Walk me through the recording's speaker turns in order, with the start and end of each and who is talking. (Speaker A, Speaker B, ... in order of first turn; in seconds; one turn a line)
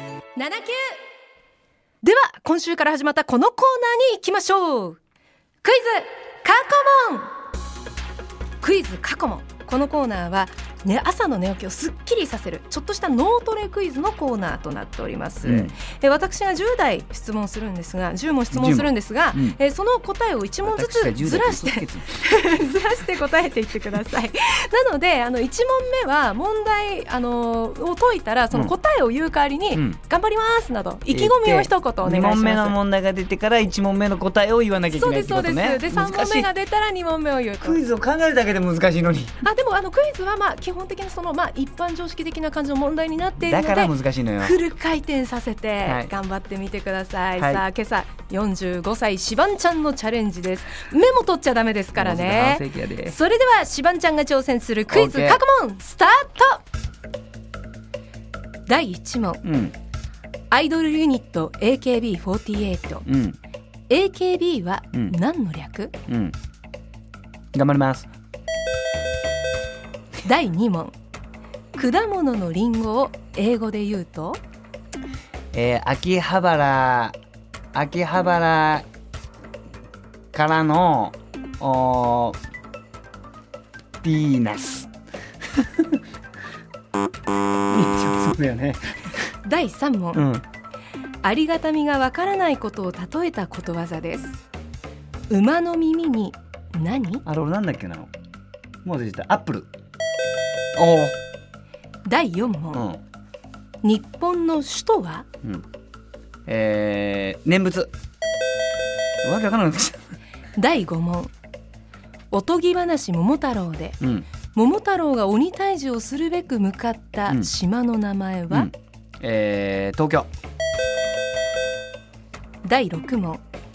Speaker A: 0.3-1.0
Speaker A: 2.0-5.0
Speaker A: 5.6-7.3
Speaker A: 8.6-32.7
Speaker B: 15.4-15.7
Speaker B: 18.5-19.6
Speaker B: 20.6-22.2
Speaker B: 31.1-36.5
Speaker A: 34.9-37.8
Speaker B: 37.6-39.4
Speaker A: 39.4-56.6
Speaker B: 43.4-44.6
Speaker B: 45.9-46.1
Speaker B: 47.4-47.6
Speaker B: 51.9-53.2
Speaker B: 54.9-55.4
Speaker A: 58.7-59.4
Speaker B: 59.4-59.7
Speaker A: 60.5-63.0
Speaker B: 63.0-63.4
Speaker A: 63.9-65.9
Speaker B: 66.1-66.3
Speaker B: 67.5-68.1
Speaker A: 70.2-70.9
Speaker A: 71.7-74.4
Speaker B: 75.5-77.2
Speaker B: 77.7-78.9
Speaker B: 80.3-82.4
Speaker B: 84.0-84.9
Speaker B: 85.5-86.0
Speaker B: 87.7-88.8
Speaker A: 89.4-90.2
Speaker B: 90.1-90.4
Speaker A: 91.2-94.4
Speaker A: 95.3-97.2
Speaker B: 97.2-98.1
Speaker B: 98.8-99.7
Speaker B: 100.8-101.1
Speaker A: 102.0-102.9
Speaker B: 102.7-103.0
Speaker A: 103.8-105.2
Speaker B: 106.5-107.9
Speaker B: 109.2-110.0
Speaker A: 110.5-111.3
Speaker A: 112.3-114.0
Speaker B: 114.0-114.3
Speaker A: 114.5-118.7
Speaker B: 118.5-120.3
Speaker A: 122.6-123.4